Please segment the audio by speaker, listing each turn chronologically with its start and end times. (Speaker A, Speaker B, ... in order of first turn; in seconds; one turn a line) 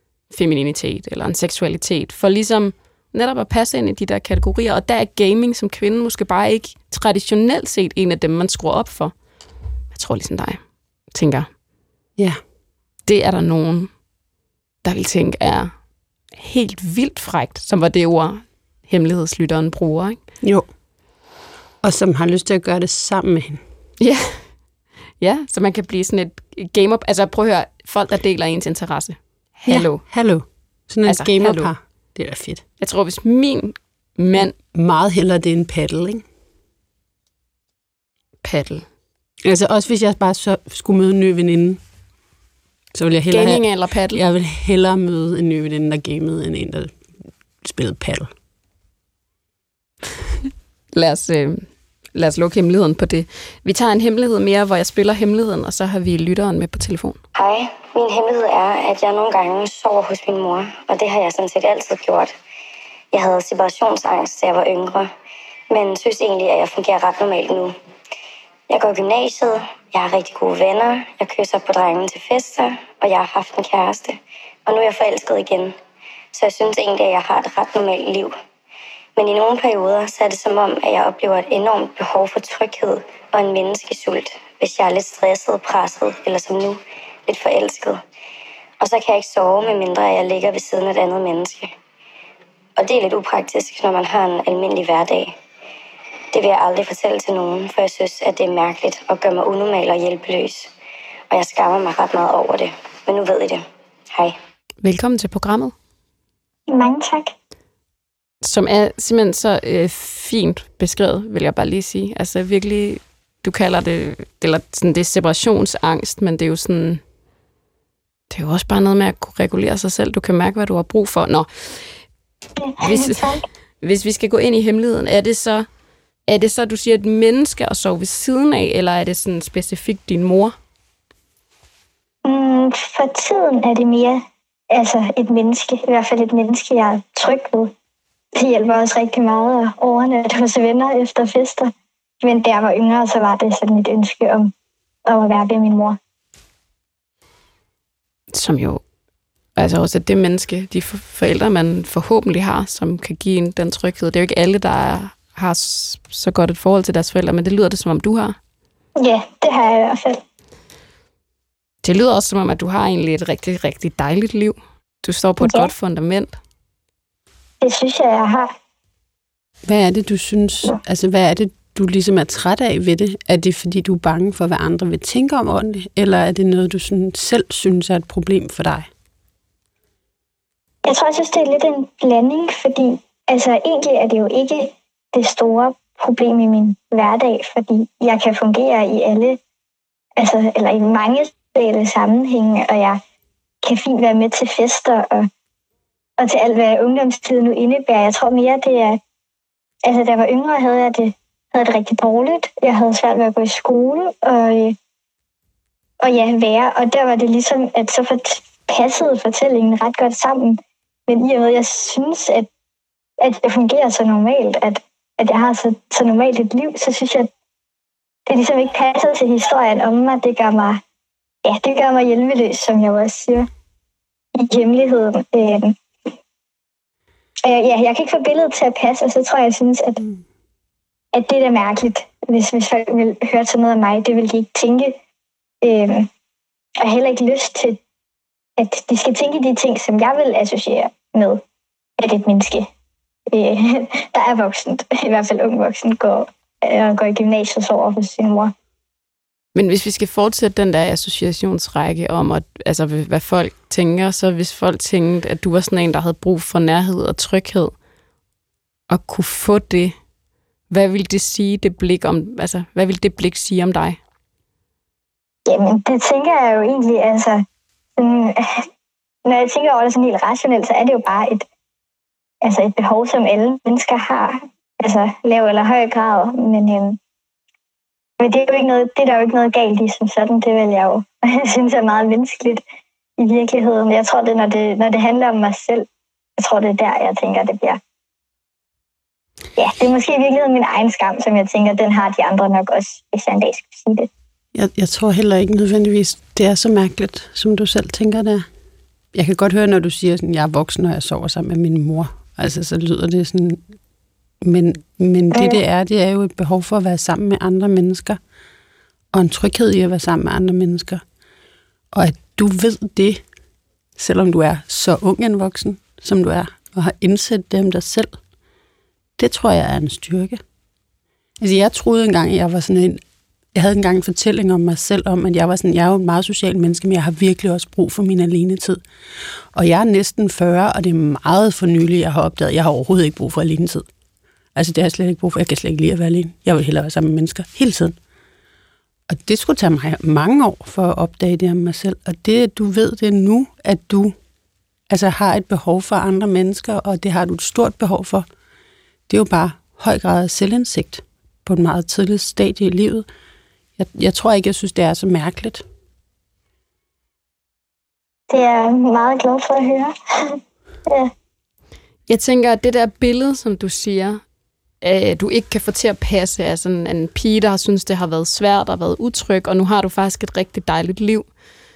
Speaker A: 0.3-9.1
Speaker A: 9.9-11.5
Speaker A: 13.1-13.9
Speaker A: 14.8-15.8
Speaker A: 16.3-20.2
Speaker B: 20.4-20.7
Speaker B: 21.8-23.6
Speaker A: 24.0-24.5
Speaker A: 25.2-30.0
Speaker B: 29.7-32.6
Speaker A: 31.1-31.7
Speaker A: 32.8-34.5
Speaker B: 34.7-36.2
Speaker A: 38.4-38.8
Speaker B: 39.4-41.8
Speaker B: 42.9-46.9
Speaker A: 43.3-44.2
Speaker B: 47.6-48.3
Speaker A: 50.9-57.2
Speaker C: 57.4-62.3
Speaker C: 63.1-65.1
Speaker C: 65.7-67.8
Speaker C: 68.7-75.8
Speaker C: 76.3-78.3
Speaker C: 79.2-88.0
Speaker C: 88.8-91.7
Speaker C: 92.8-95.3
Speaker C: 96.3-100.7
Speaker C: 101.3-104.4
Speaker A: 104.8-105.7
Speaker D: 106.7-107.3
Speaker A: 108.4-117.0
Speaker A: 118.3-122.0
Speaker D: 122.6-123.4
Speaker A: 122.8-123.3
Speaker A: 123.8-125.7
Speaker A: 126.3-130.6
Speaker D: 132.2-137.7
Speaker D: 138.3-144.5
Speaker D: 145.1-146.0
Speaker A: 148.3-148.8
Speaker A: 149.6-158.4
Speaker D: 159.0-160.2
Speaker A: 161.8-166.4
Speaker D: 165.4-165.7
Speaker D: 167.6-168.5
Speaker B: 169.7-178.9
Speaker D: 180.8-189.4
Speaker D: 190.2-193.0
Speaker D: 193.6-195.3
Speaker D: 196.2-199.0
Speaker D: 199.8-204.8
Speaker D: 206.0-212.5
Speaker D: 213.2-217.3
Speaker D: 218.3-220.8
Speaker D: 221.4-223.5
Speaker D: 224.3-225.8
Speaker D: 227.4-230.0
Speaker D: 231.1-234.9
Speaker D: 235.6-236.1
Speaker D: 236.8-237.8
Speaker D: 238.6-241.4
Speaker D: 242.0-242.7
Speaker D: 243.3-248.5
Speaker A: 249.5-257.7
Speaker A: 258.9-259.9
Speaker A: 260.7-264.0
Speaker D: 265.5-267.4
Speaker D: 268.0-268.7
Speaker D: 269.2-271.5
Speaker D: 272.4-277.0
Speaker D: 278.2-282.6
Speaker D: 283.2-285.9
Speaker D: 286.4-287.8
Speaker D: 289.6-294.1
Speaker B: 294.5-298.5
Speaker B: 299.1-303.6
Speaker B: 304.4-308.2
Speaker D: 305.3-305.6
Speaker B: 309.1-311.0
Speaker B: 311.9-313.2
Speaker B: 314.0-318.2
Speaker B: 319.2-320.4
Speaker B: 321.4-323.0
Speaker B: 323.5-328.8
Speaker B: 329.5-333.9
Speaker B: 334.5-338.0
Speaker B: 339.1-344.1
Speaker B: 344.9-348.3
Speaker B: 349.1-353.1
Speaker B: 353.8-355.6
Speaker D: 358.3-361.1
Speaker A: 362.1-364.2
Speaker A: 364.8-371.3